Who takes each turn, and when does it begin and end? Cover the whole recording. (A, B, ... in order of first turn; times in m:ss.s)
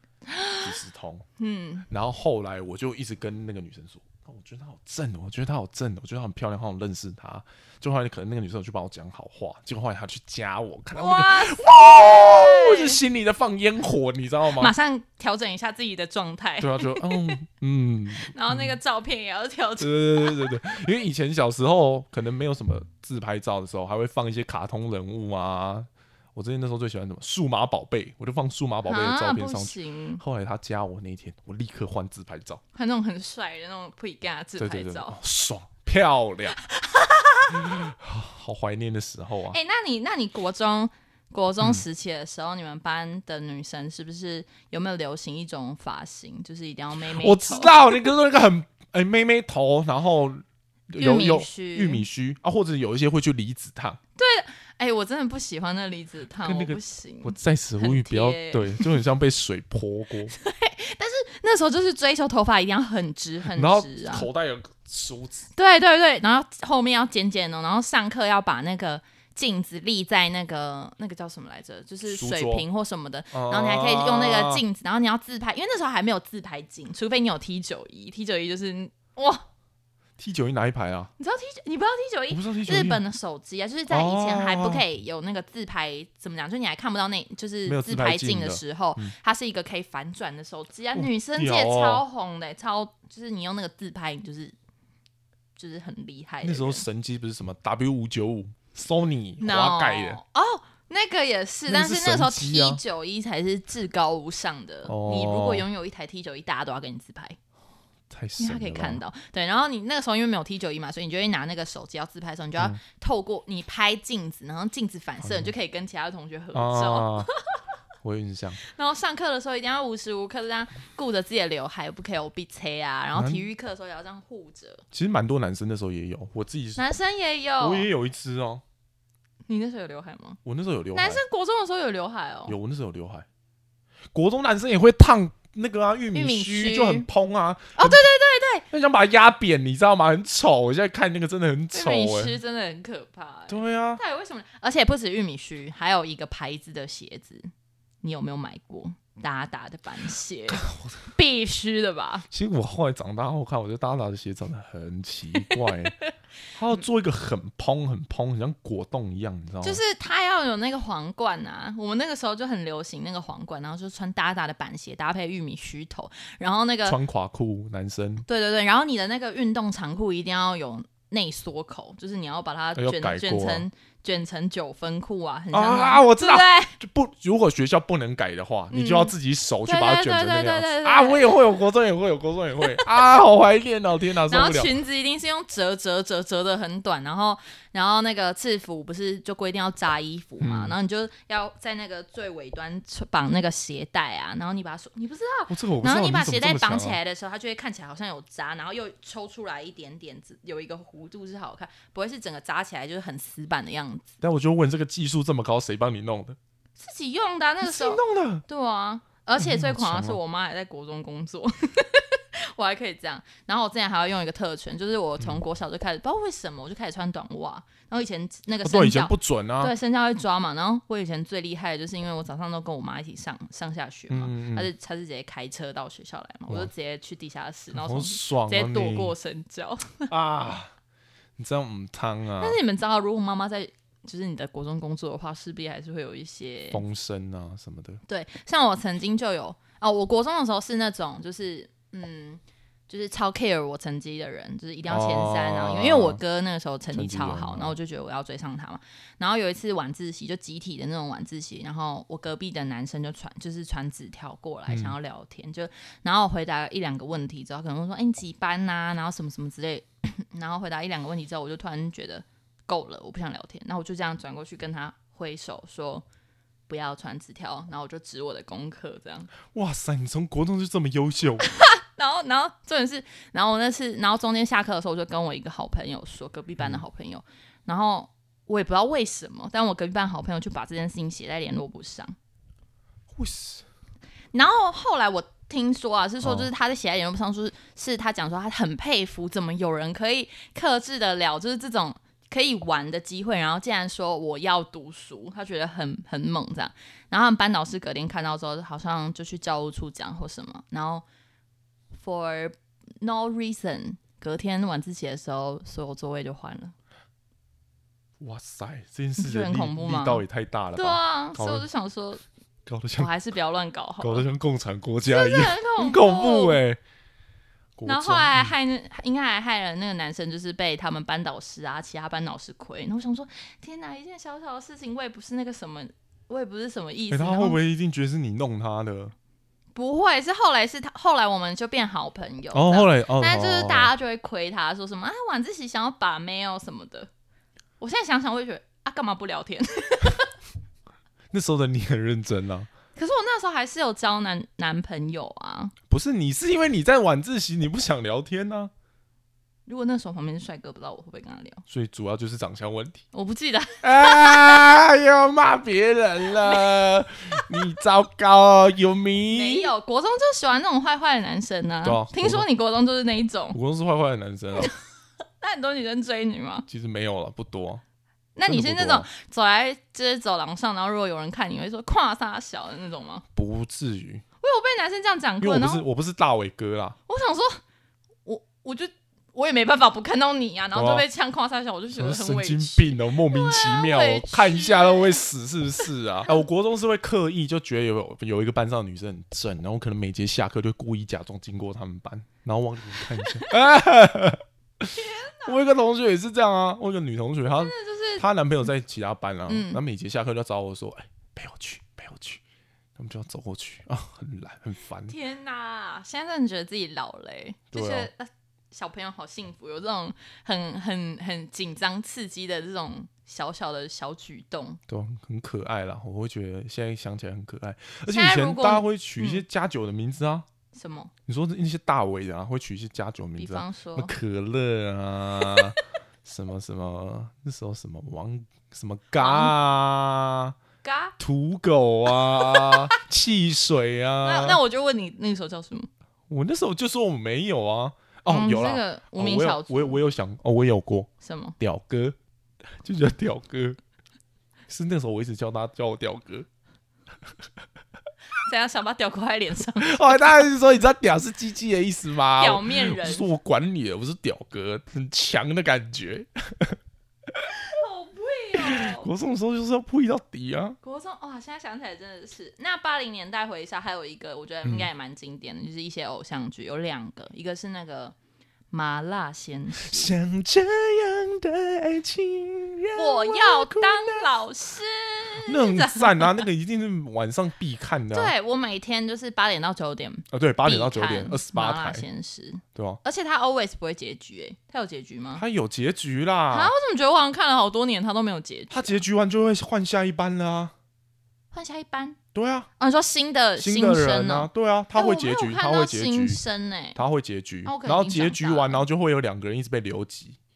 0:00.3-0:00.7 A
0:00.6-0:01.2 B
0:01.4-0:01.9 A
0:01.9-0:14.7 B
0:11.0-0:13.0 A
0:14.5-0:17.4 A
0:16.6-0:18.8 B
0:18.2-0:20.6 A
0:19.8-0:32.6 B
0:28.9-0:30.2 A
0:32.8-0:35.2 A
0:34.6-0:36.6 B
0:36.7-0:37.6 A
0:37.5-0:39.6 B
0:39.5-0:47.9 A
0:47.2-0:54.0 B
0:51.0-0:52.0 A
0:54.2-0:58.9 A
0:56.4-1:00.3 B
1:00.3-1:04.3 A
1:03.5-1:05.5 B
1:05.6-1:19.4 A
1:12.0-1:12.7 B
1:13.3-1:14.6 B
1:20.2-1:21.1 B
1:21.2-1:34.6 A
1:22.3-1:23.0 B
1:23.9-1:24.8 B
1:27.7-1:29.1 B
1:31.0-1:32.0 B
1:35.6-1:36.8 A
1:36.4-1:40.2 B
1:39.4-1:47.4 A
1:41.7-1:42.8 B
1:44.9-1:45.7 B
1:48.1-1:49.0 B
1:48.4-1:57.3 A
1:55.2-1:55.5 B
1:56.5-1:57.3 B
1:58.0-1:58.6 B
1:58.6-2:04.8 A
2:03.1-2:03.5 B
2:04.9-2:06.8 B
2:06.8-2:07.9 A
2:07.6-2:08.6 B
2:09.5-2:10.4 A
2:10.4-2:11.2 B
2:10.9-2:12.6 A
2:12.5-2:13.3 B
2:14.1-2:18.0 B
2:16.1-2:17.1 A
2:17.8-2:18.7 A
2:18.7-2:22.4 B
2:21.7-2:27.5 A
2:23.5-2:24.0 B
2:28.0-2:32.3 A
2:30.5-2:31.0 B
2:32.3-2:36.0 B
2:35.4-2:36.1 A
2:36.5-2:39.8 B
2:39.6-2:47.0 A
2:46.8-2:48.2 B
2:48.3-2:56.8 A
2:52.8-2:53.7 B
2:55.5-3:04.8 B
2:58.7-2:59.1 A
2:59.6-3:01.4 A
3:02.6-3:02.9 A
3:04.3-3:24.2 A
3:10.4-3:10.8 B
3:15.5-3:17.0 B
3:24.2-3:26.4 B
3:26.8-3:50.1 A
3:27.6-3:28.4 B
3:29.4-3:30.2 B
3:38.6-3:39.7 B
3:44.1-3:44.7 B
3:47.7-3:49.2 B
3:50.1-3:50.7 B
3:51.4-3:52.6 B
3:52.4-3:56.8 A
3:56.7-3:58.0 B
3:58.1-4:26.0 A
4:04.9-4:06.2 B
4:06.9-4:07.8 B
4:14.7-4:15.0 B
4:26.7-4:29.3 A
4:29.5-4:31.5 B
4:31.5-4:42.2 A
4:43.1-4:43.6 B
4:44.3-5:01.0 A
4:46.2-4:46.5 B
5:02.0-5:06.8 A
5:08.2-5:11.7 B
5:09.2-5:12.2 A
5:12.7-5:13.1 B
5:13.0-5:14.3 A
5:14.0-5:16.8 B
5:15.1-5:16.6 A
5:17.8-5:18.5 B
5:17.9-5:27.6 A
5:27.1-5:29.1 B
5:29.8-5:37.1 A
5:32.5-5:33.9 B
5:37.8-5:40.3 A
5:41.3-5:42.7 B
5:43.0-5:45.7 A
5:45.9-5:48.7 B
5:49.7-5:51.6 A
5:51.7-5:53.0 B
5:53.1-5:54.6 A
5:53.8-5:59.7 B
5:56.4-5:56.8 A
5:59.3-6:03.6 A
6:01.8-6:02.5 B
6:03.5-6:04.7 B
6:05.4-6:06.7 A
6:06.7-6:07.8 B
6:08.4-6:13.2 A
6:08.5-6:09.1 B
6:13.4-6:14.2 B
6:14.4-6:15.8 A
6:15.4-6:17.0 B
6:17.1-6:17.6 A
6:18.3-6:25.2 A
6:20.7-6:21.0 B
6:21.9-6:42.4 B
6:33.2-6:33.5 A
6:35.0-6:35.6 A
6:37.6-6:38.3 A
6:39.5-6:39.8 A
6:43.0-6:45.2 B
6:45.1-6:54.8 A
6:47.7-6:48.1 B
6:54.9-7:00.5 B
6:58.1-6:59.4 A
7:00.7-7:01.1 A
7:01.3-7:10.6 B
7:03.4-7:04.1 A
7:09.2-7:09.6 A
7:10.8-7:11.2 A
7:11.2-7:14.6 B
7:12.1-7:12.8 A
7:14.2-7:15.9 A
7:16.3-7:22.2 B
7:18.3-7:20.0 A
7:21.2-7:21.6 A
7:22.8-7:23.8 B
7:24.7-7:26.5 B
7:28.4-7:30.4 A
7:29.8-7:36.8 B
7:32.4-7:33.3 A
7:37.6-7:39.1 A
7:38.6-7:40.8 B
7:40.8-7:48.2 A
7:48.7-7:50.1 A
7:49.8-7:54.3 B
7:53.0-7:56.5 A
7:55.4-7:58.3 B
7:58.1-8:05.4 A
8:00.3-8:02.0 B
8:02.8-8:03.0 B
8:05.4-8:06.7 B
8:06.5-8:09.0 A
8:08.7-8:10.7 B
8:11.5-8:12.2 A
8:12.3-8:12.7 B
8:12.8-8:17.0 A
8:13.6-8:16.4 B
8:17.0-8:20.4 B
8:17.6-8:18.8 A